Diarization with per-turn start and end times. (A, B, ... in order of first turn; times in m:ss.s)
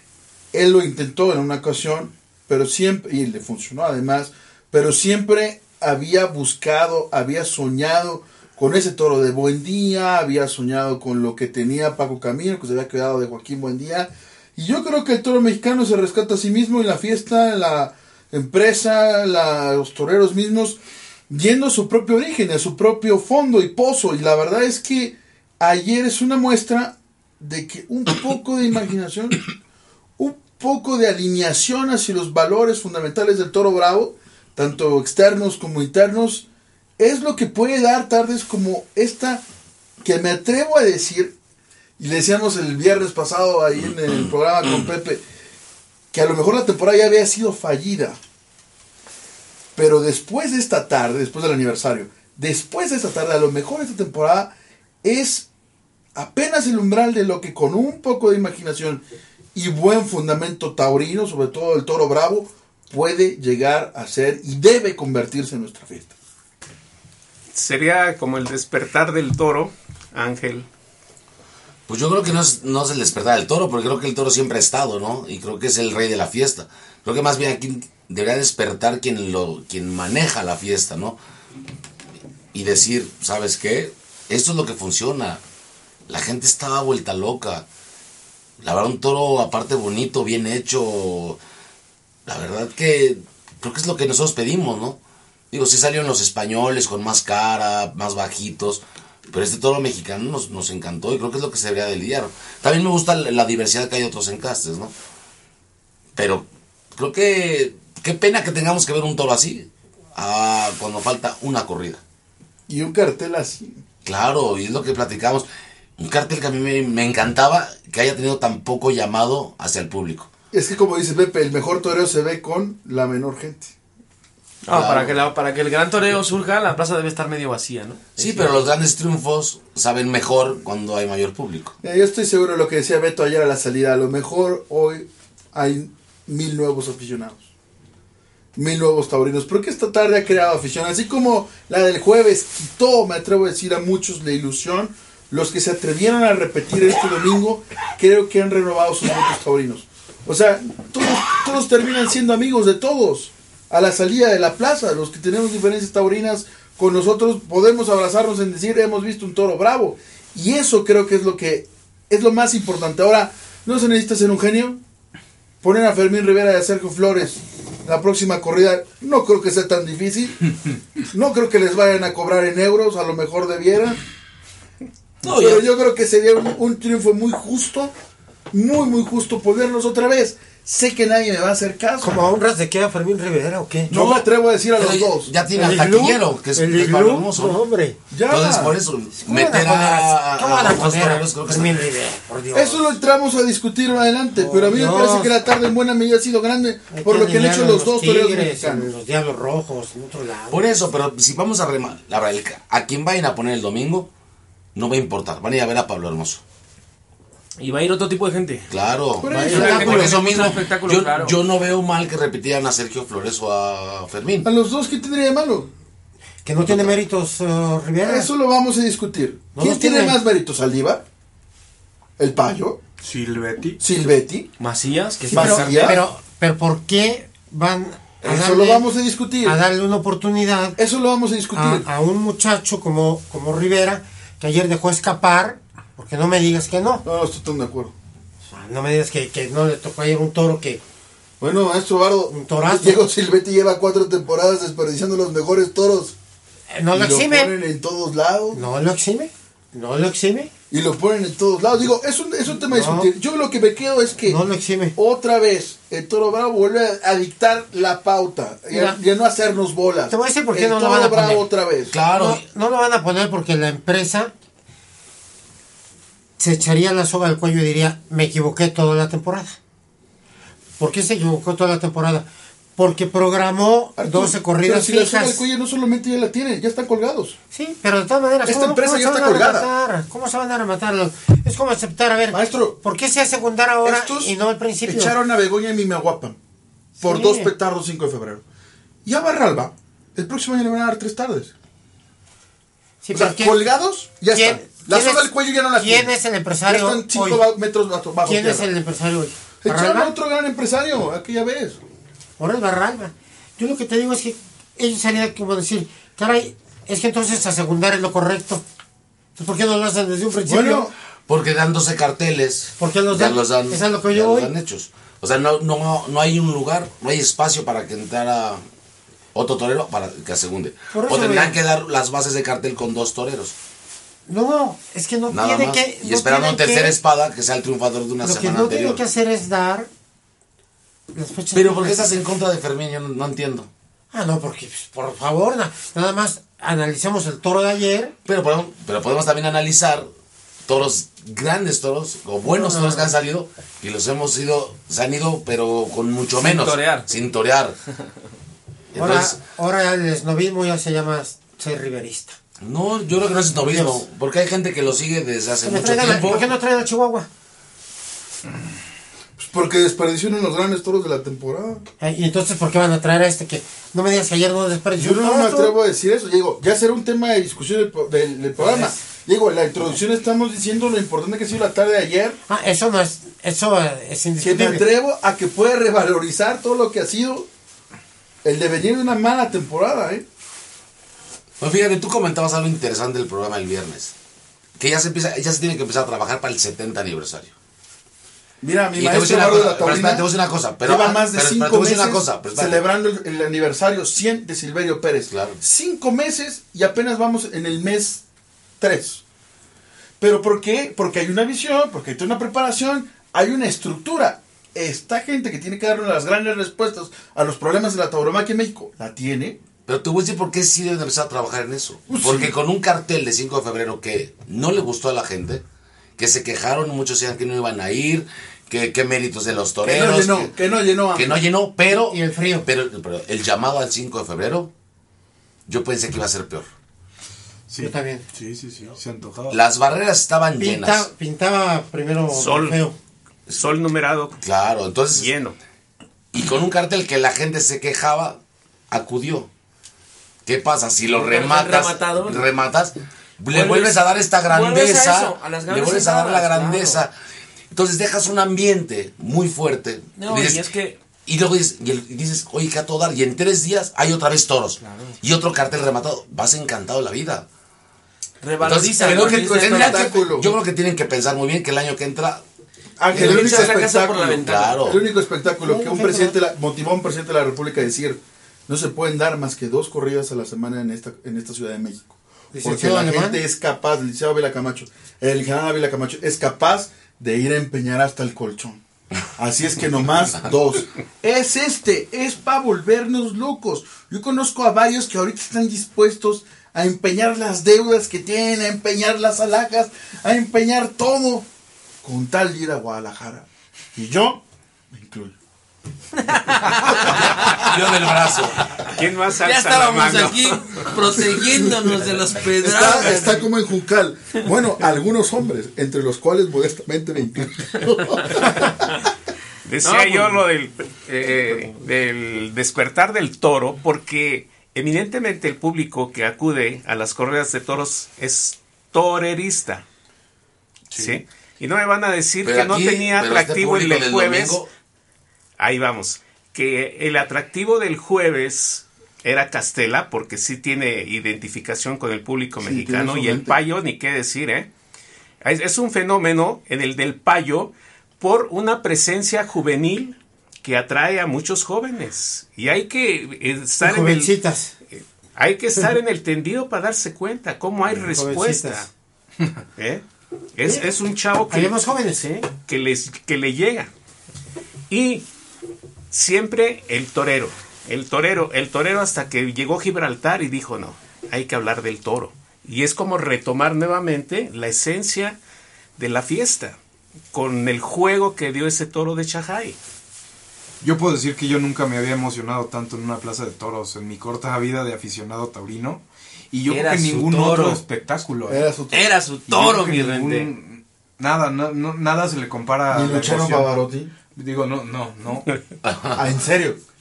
0:00.5-0:29.5 A
0:30.2-0:36.5 A
0:37.0-0:39.4 A
0:40.0-0:41.3 A
0:42.0-0:45.2 A
0:43.8-0:44.9 B
0:46.1-0:48.2 A
0:49.8-0:55.5 A
0:56.2-0:59.0 A
0:59.6-1:06.1 A
1:07.5-1:10.7 C
1:11.9-1:21.2 B
1:22.5-1:25.4 B
1:26.1-1:27.7 B
1:28.6-1:31.4 B
1:32.2-1:35.0 B
1:35.5-1:44.9 B
1:46.2-1:52.0 B
1:52.7-1:53.8 A
1:54.0-1:55.5 B
1:56.0-2:00.3 B
2:00.5-2:03.7 A
2:04.7-2:08.6 D
2:04.7-2:05.1 A
2:08.2-2:11.8 B
2:11.8-2:17.5 A
2:18.6-2:44.8 A
2:45.6-2:54.0 A
2:55.2-2:55.7 B
2:55.2-2:57.9 A
2:58.5-3:02.3 A
3:02.0-3:03.9 E
3:03.9-3:07.6 B
3:03.9-3:05.3 A
3:05.6-3:08.0 E
3:08.1-3:08.8 A
3:08.3-3:11.8 B
3:09.2-3:12.8 E
3:12.5-3:18.9 A
3:14.4-3:15.3 E
3:16.9-3:20.9 E
3:20.5-3:24.1 B
3:24.8-3:26.4 B
3:27.6-3:28.7 D
3:28.7-3:34.5 B
3:29.2-3:30.2 A
3:29.4-3:31.4 D
3:34.4-3:35.7 A
3:36.4-3:38.3 E
3:36.7-3:37.0 B
3:38.0-3:41.0 A
3:39.6-3:40.2 E
3:42.2-3:42.8 A
3:43.0-3:43.8 F
3:43.8-3:44.5 A
3:44.6-3:46.0 D
3:45.3-3:48.9 E
3:45.3-3:46.0 A
3:48.2-3:49.6 A
3:49.4-3:50.8 E
3:50.8-3:51.9 A
3:51.6-3:57.0 E
3:57.0-3:57.9 A
3:58.5-4:00.8 E
4:01.4-4:06.1 A
4:02.3-4:03.1 E
4:06.7-4:07.5 E
4:06.9-4:08.6 A
4:08.5-4:10.5 E
4:10.7-4:14.4 A
4:12.7-4:13.1 E
4:14.2-4:15.0 E
4:15.0-4:22.0 A
4:18.7-4:19.0 E
4:20.1-4:21.5 E
4:21.9-4:22.4 B
4:22.1-4:24.3 E
4:26.4-4:29.6 E
4:30.8-4:35.5 E
4:34.0-4:37.4 A
4:37.5-4:45.2 E
4:38.5-4:39.7 A
4:42.3-4:42.8 A
4:43.8-4:44.3 A
4:44.9-4:46.4 A
4:47.0-4:47.5 E
4:47.0-4:48.4 A
4:49.0-4:51.5 A
4:53.0-4:53.6 E
4:53.1-4:56.1 A
4:54.3-4:57.4 E
4:56.7-4:58.7 A
4:58.2-5:00.1 E
4:59.6-5:01.8 A
5:02.4-5:08.6 E
5:09.4-5:10.9 E
5:10.5-5:11.0 A
5:11.3-5:18.6 B
5:12.8-5:14.5 E
5:19.3-5:23.6 B
5:20.9-5:21.6 E
5:24.3-5:27.0 E
5:25.3-5:29.0 B
5:28.2-5:29.9 E
5:31.1-5:32.1 E
5:31.5-5:33.7 B
5:34.1-5:38.2 E
5:38.2-5:40.1 B
5:40.7-5:47.8 B
5:42.5-5:43.1 E
5:46.4-5:47.1 D
5:48.9-5:49.4 B
5:49.0-5:52.4 E
5:52.6-5:56.5 B
5:53.6-5:54.0 E
5:55.6-5:57.3 E
5:59.4-6:01.9 A
6:02.0-6:05.7 E
6:05.0-6:12.4 A
6:08.6-6:08.9 E
6:12.5-6:14.9 E
6:14.4-6:17.5 A
6:18.4-6:20.2 A
6:21.6-6:24.1 B
6:24.8-6:27.5 B
6:28.6-6:30.3 A
6:28.9-6:32.8 B
6:30.8-6:38.2 A
6:35.3-6:35.6 B
6:38.8-6:39.2 A
6:40.2-6:49.6 A
6:49.9-6:55.6 B
6:52.1-6:52.5 A
6:56.2-7:00.5 B
6:59.8-7:01.4 A
7:01.1-7:04.7 B
7:01.9-7:02.7 E
7:05.7-7:06.7 B
7:07.7-7:09.6 F
7:07.8-7:08.2 E
7:09.5-7:11.1 B
7:10.6-7:13.0 E
7:12.3-7:12.8 C
7:13.6-7:14.4 C
7:14.4-7:15.3 B
7:15.2-7:15.6 C
7:16.3-7:18.4 B
7:18.9-7:19.5 B
7:20.5-7:27.1 B
7:21.1-7:22.4 D
7:23.5-7:27.0 D
7:27.7-7:30.7 B
7:30.2-7:31.0 D
7:31.2-7:37.5 B
7:34.8-7:35.2 D
7:38.4-7:40.2 D
7:38.6-7:42.4 B
7:39.0-7:40.5 A
7:43.0-7:58.8 A
7:43.1-7:44.8 D
7:43.1-7:43.8 B
7:44.4-7:45.0 B
7:45.6-7:46.4 E
7:52.5-7:53.4 E
7:59.4-8:11.4 A
8:12.0-8:15.3 A
8:16.2-8:17.7 D
8:16.9-8:17.6 A
8:17.1-8:18.6 B
8:18.3-8:18.9 D
8:18.8-8:20.9 C
8:19.4-8:23.5 D
8:21.1-8:21.8 A
8:22.6-8:29.0 A
8:29.6-8:39.8 C
8:29.8-8:30.4 D
8:41.0-8:44.6 C
8:42.4-8:44.7 B
8:45.6-8:54.7 C
8:52.6-8:53.6 A
8:55.4-9:04.3 C
9:03.8-9:04.7 E
9:04.9-9:08.9 C
9:07.9-9:08.9 E
9:09.8-9:10.0 C
9:10.6-9:13.9 C
9:11.5-9:12.5 E
9:14.9-9:15.2 C
9:16.1-9:25.4 C
9:26.0-9:26.8 C
9:27.3-9:29.8 C
9:30.8-9:38.6 F
9:36.7-9:37.8 D
9:38.5-9:39.1 A
9:38.9-9:40.5 D
9:39.5-9:43.8 F
9:42.9-9:44.1 A
9:44.3-9:45.5 F
9:45.8-9:46.2 B
9:46.2-9:46.8 A